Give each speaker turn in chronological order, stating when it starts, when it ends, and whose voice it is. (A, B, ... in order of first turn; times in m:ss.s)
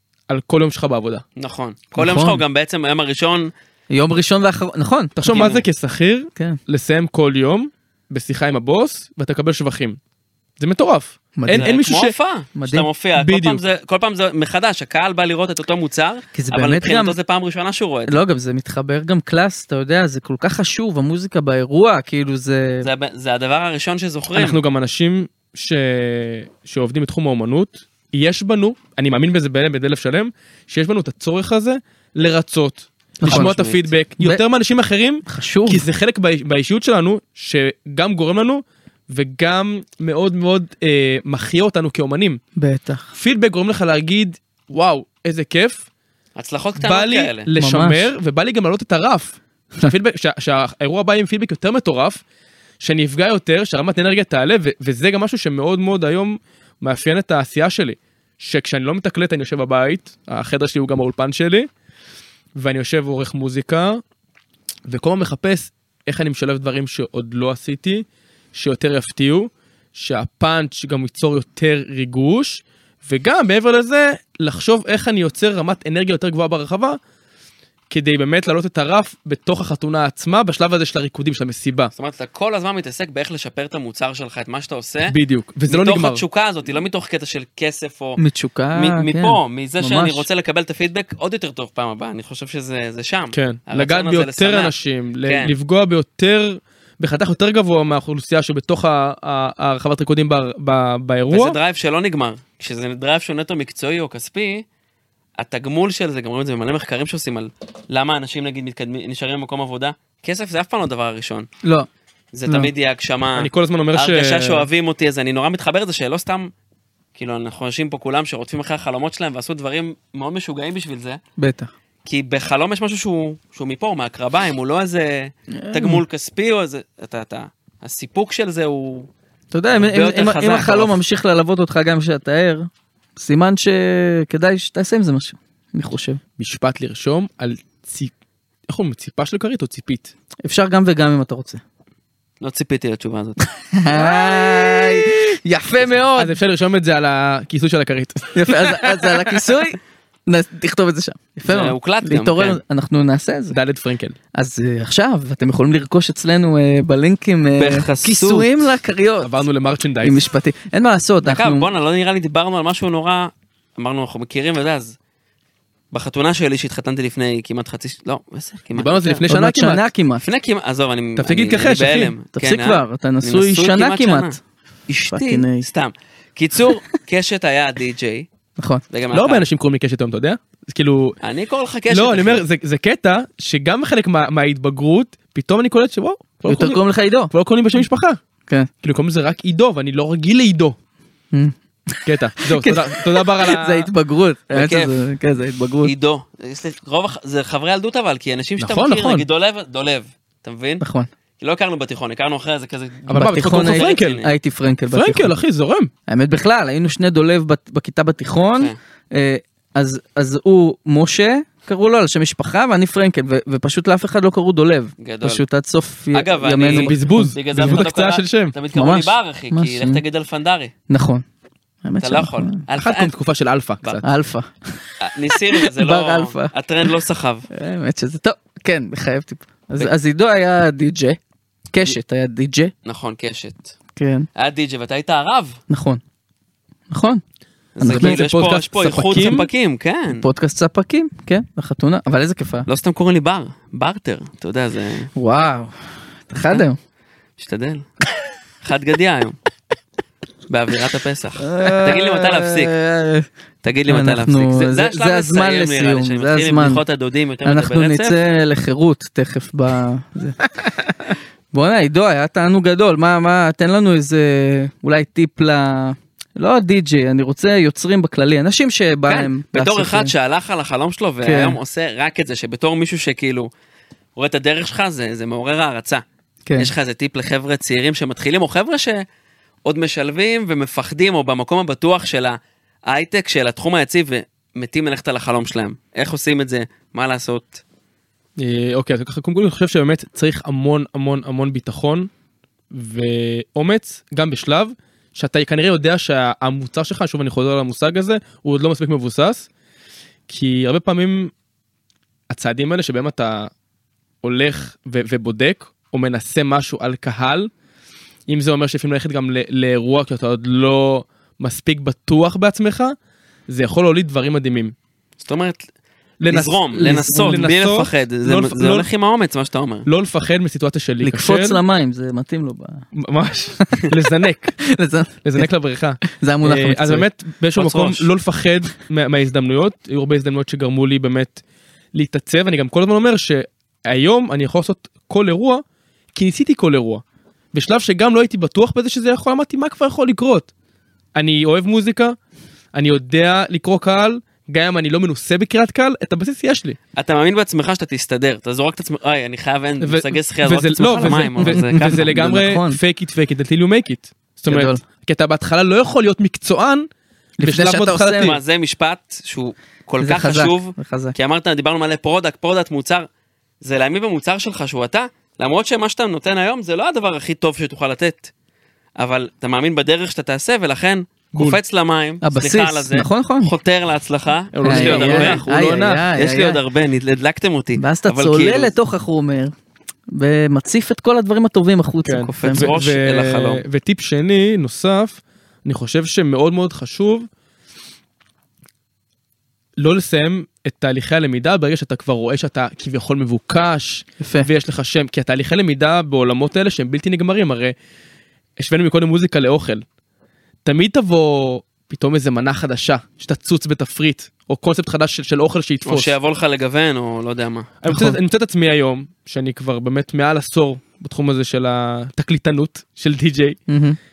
0:00.3-0:01.2 A
0:01.4-0:03.5 B
0:02.0-0:02.4 C
0:03.9-0:05.5 C
0:05.2-0:10.0 A
0:05.3-0:05.6 B
0:10.6-0:12.1 A
0:11.4-0:11.7 C
0:11.5-0:18.2 B
0:12.6-0:12.9 C
0:13.2-0:13.6 A
0:16.3-0:17.2 C
0:18.1-0:22.9 C
0:22.8-0:24.6 B
0:24.3-0:42.4 A
0:33.2-0:33.5 C
0:33.2-0:33.9 B
0:35.2-0:35.8 C
0:42.6-0:43.1 C
0:43.1-0:45.8 A
0:46.4-0:47.5 B
0:46.8-0:52.2 A
0:47.6-0:48.1 C
0:52.8-1:01.7 A
1:02.6-1:04.0 A
1:04.9-1:17.0 A
1:17.9-1:21.9 A
1:22.0-1:25.1 B
1:25.1-1:26.2 A
1:25.7-1:28.2 B
1:28.2-1:30.2 C
1:28.7-1:35.5 B
1:33.3-1:41.6 A
1:41.3-1:44.6 B
1:45.4-1:51.5 B
1:51.6-1:51.9 C
1:52.3-1:56.5 B
1:53.4-1:54.7 A
1:57.1-2:01.2 B
2:01.4-2:01.7 C
2:02.0-2:09.1 B
2:05.6-2:06.0 C
2:09.5-2:16.2 C
2:09.7-2:11.0 B
2:16.4-2:18.1 A
2:18.7-2:20.1 A
2:20.4-2:21.6 C
2:22.4-2:23.5 B
2:23.7-2:26.4 C
2:26.2-2:29.4 A
2:28.3-2:33.6 C
2:31.5-2:32.6 B
2:33.5-2:34.2 A
2:34.3-2:39.4 C
2:37.6-2:38.5 B
2:39.2-2:40.2 A
2:40.0-2:41.7 C
2:41.2-2:44.9 B
2:45.9-2:49.2 B
2:48.7-2:49.8 A
2:49.3-2:50.2 C
2:50.2-2:54.4 B
2:51.2-2:52.1 A
2:52.3-2:54.4 C
2:54.9-2:58.3 B
2:55.0-2:55.7 C
2:58.6-2:58.8 C
2:58.9-2:59.4 B
2:59.1-3:01.2 A
3:01.2-3:02.4 B
3:01.9-3:08.2 A
3:06.5-3:07.3 C
3:08.8-3:10.8 A
3:11.3-3:15.9 C
3:12.0-3:13.9 A
3:14.5-3:15.0 B
3:15.8-3:20.8 B
3:18.6-3:19.2 A
3:20.8-3:21.1 C
3:21.4-3:24.3 B
3:23.1-3:24.2 A
3:23.1-3:25.3 C
3:24.9-3:25.9 A
3:26.1-3:37.8 C
3:35.0-3:35.4 B
3:36.1-3:40.7 B
3:36.7-3:38.5 A
3:38.7-3:40.0 C
3:40.9-3:41.2 C
3:41.8-3:42.6 C
3:42.0-3:43.1 B
3:42.7-3:44.1 A
3:44.0-3:46.5 C
3:45.0-3:47.5 B
3:47.5-3:51.2 C
3:51.7-3:52.7 C
3:52.8-3:53.7 B
3:54.0-3:54.3 C
3:54.4-3:55.6 B
3:55.7-3:56.0 C
3:56.9-3:57.2 C
3:57.8-4:00.2 B
3:57.8-3:58.2 C
3:57.9-3:59.5 A
4:00.1-4:02.7 C
4:02.7-4:05.1 B
4:05.1-4:06.8 C
4:07.4-4:07.8 B
4:08.6-4:09.4 B
4:10.5-4:12.7 B
4:11.4-4:13.3 C
4:13.6-4:18.2 B
4:13.9-4:16.8 C
4:17.4-4:20.4 C
4:21.5-4:30.1 C
4:29.1-4:33.5 B
4:31.2-4:31.6 C
4:34.2-4:36.0 B
4:36.6-4:39.0 B
4:39.6-4:47.6 B
4:48.4-4:52.1 A
4:52.7-4:59.5 A
5:00.3-5:01.3 A
5:02.3-5:03.5 A
5:04.2-5:07.5 A
5:08.3-5:13.0 A
5:13.5-5:14.7 A
5:15.2-5:15.6 B
5:16.2-5:18.9 A
5:16.3-5:19.9 B
5:19.8-5:21.6 A
5:21.0-5:22.9 C
5:22.9-5:24.6 A
5:23.6-5:23.9 C
5:24.6-5:25.5 C
5:25.2-5:31.4 A
5:26.0-5:27.1 C
5:27.6-5:28.1 B
5:31.9-5:35.6 A
5:36.1-5:40.5 A
5:41.1-5:42.2 A
5:42.7-5:46.8 A
5:47.0-5:52.0 B
5:49.8-5:56.9 A
5:51.4-5:52.8 C
5:54.5-5:54.8 C
5:57.4-5:58.3 C
5:57.4-5:58.4 A
5:58.2-6:03.0 B
6:00.0-6:01.1 C
6:03.6-6:08.3 B
6:09.0-6:15.4 B
6:12.2-6:13.5 C
6:14.5-6:16.1 A
6:14.6-6:16.6 C
6:16.2-6:18.7 B
6:17.8-6:19.5 C
6:20.1-6:22.7 C
6:22.0-6:27.3 A
6:22.3-6:23.6 B
6:29.8-6:37.7 A
6:34.2-6:34.5 C
6:38.6-6:39.8 A
6:40.6-6:46.1 A
6:45.8-6:47.7 B
6:47.8-6:53.6 A
6:47.9-6:48.2 C
6:53.7-6:54.0 C